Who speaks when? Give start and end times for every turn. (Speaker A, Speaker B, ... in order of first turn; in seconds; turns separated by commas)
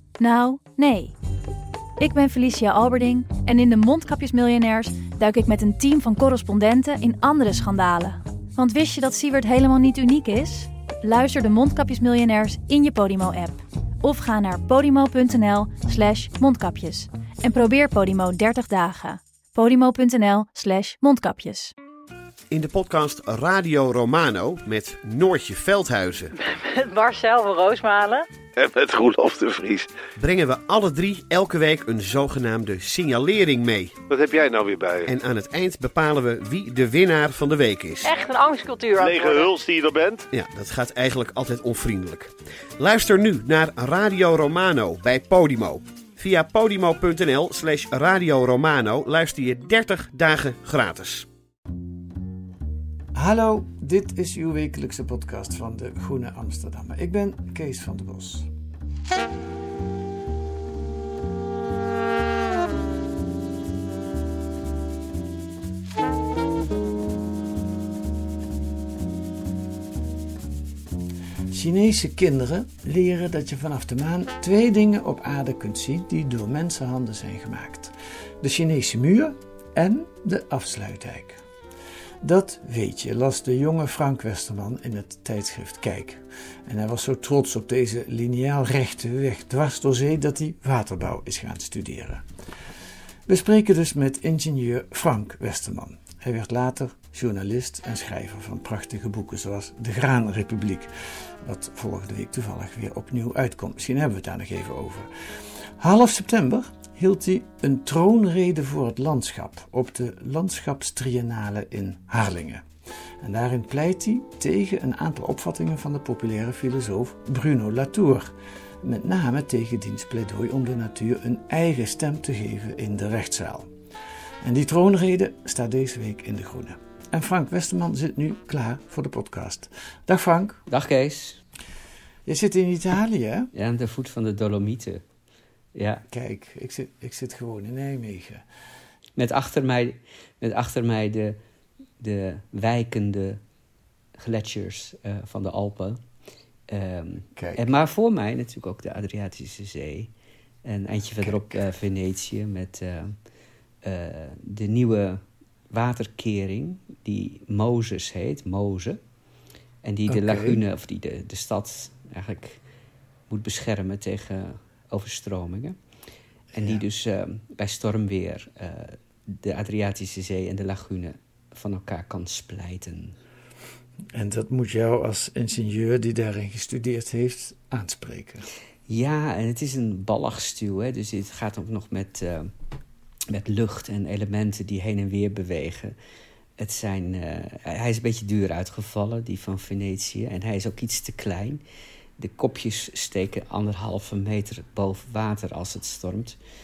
Speaker A: 0.2-1.1, Speaker A: 2.0-21.7, Speaker B: 22.5-26.3, Speaker C: 26.4-28.3, Speaker D: 28.6-29.9, Speaker B: 30.2-34.0, Speaker D: 34.1-35.1, Speaker B: 35.1-38.1, Speaker C: 38.0-39.5, Speaker D: 39.0-40.3, Speaker B: 40.3-51.2, Speaker E: 53.1-58.5, Speaker E: 71.5-81.4, Speaker E: 82.2-92.2, Speaker E: 93.3-112.7, Speaker E: 113.2-123.7, Speaker E: 124.4-130.6, Speaker F: 130.7-131.4, Speaker E: 132.2-133.5, Speaker F: 133.5-135.0, Speaker F: 135.8-136.0, Speaker E: 136.1-138.4, Speaker F: 139.2-141.4, Speaker F: 142.0-143.4, Speaker F: 144.2-146.0, Speaker F: 146.7-150.1, Speaker E: 147.4-147.6, Speaker F: 150.7-153.2, Speaker E: 151.2-151.6, Speaker F: 153.8-159.0, Speaker F: 159.8-162.6, Speaker E: 160.1-160.6, Speaker F: 163.3-165.8, Speaker E: 166.5-166.8, Speaker F: 166.5-173.2, Speaker E: 174.1-178.5, Speaker F: 178.9-182.5, Speaker F: 183.3-185.9, Speaker F: 186.6-191.6, Speaker F: 192.2-196.4